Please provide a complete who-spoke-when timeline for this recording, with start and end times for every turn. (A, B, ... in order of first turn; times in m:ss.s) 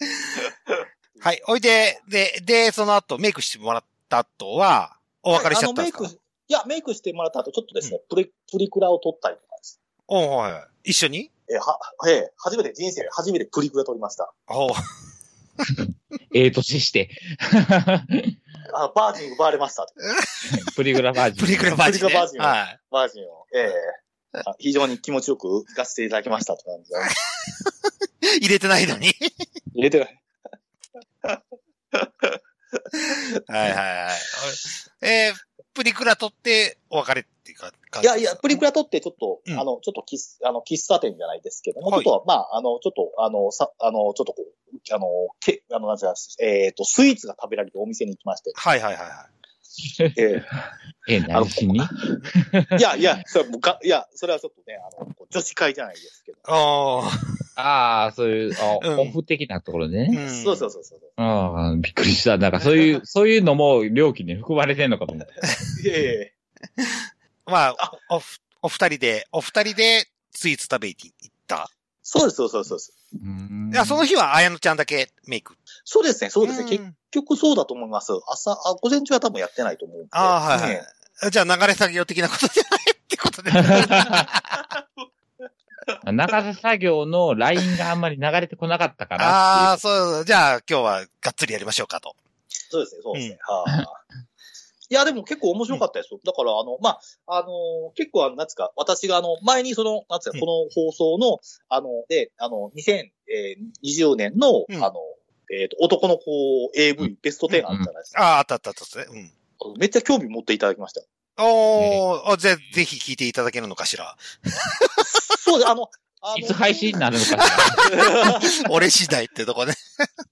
0:00.4-0:02.0 A
0:01.2-0:06.1 B
0:05.3-0:09.8 A
0:10.1-0:11.3 B
0:11.5-0:14.3 A
0:14.5-0:14.8 B
0:16.3-0:18.4 C
0:18.7-0:20.0 A
0:20.1-0:20.5 B
0:20.5-0:21.7 C
0:21.4-0:22.8 B
0:21.8-0:27.1 A
0:28.2-0:29.3 B
0:29.7-0:30.2 A
0:31.9-0:33.8 A
0:33.0-0:38.6 B
0:38.0-0:48.6 A
0:41.8-0:42.1 B
0:48.5-0:49.3 B
0:49.8-0:50.2 C
0:50.1-0:50.6 A
0:51.0-0:52.8 C
0:51.3-0:52.2 A
0:52.7-0:56.5 A
0:56.4-0:57.3 B
0:57.6-1:00.2 C
0:58.8-0:59.2 B
1:00.1-1:00.7 B
1:00.2-1:01.1 A
1:01.2-1:05.3 C
1:05.4-1:06.3 A
1:06.8-1:11.7 B
1:12.0-1:12.9 A
1:13.2-1:14.0 C
1:13.7-1:15.6 B
1:15.8-1:20.8 A
1:16.4-1:16.9 B
1:20.1-1:24.6 B
1:23.8-1:24.1 C
1:26.0-1:29.8 C
1:29.2-1:32.2 B
1:32.7-1:34.0 A
1:34.9-1:48.2 A
1:48.1-1:49.3 B
1:49.6-1:51.0 A
1:51.4-1:55.1 B
1:55.0-1:57.0 A
1:56.3-1:57.9 C
1:57.3-2:00.1 B
1:57.8-1:58.6 A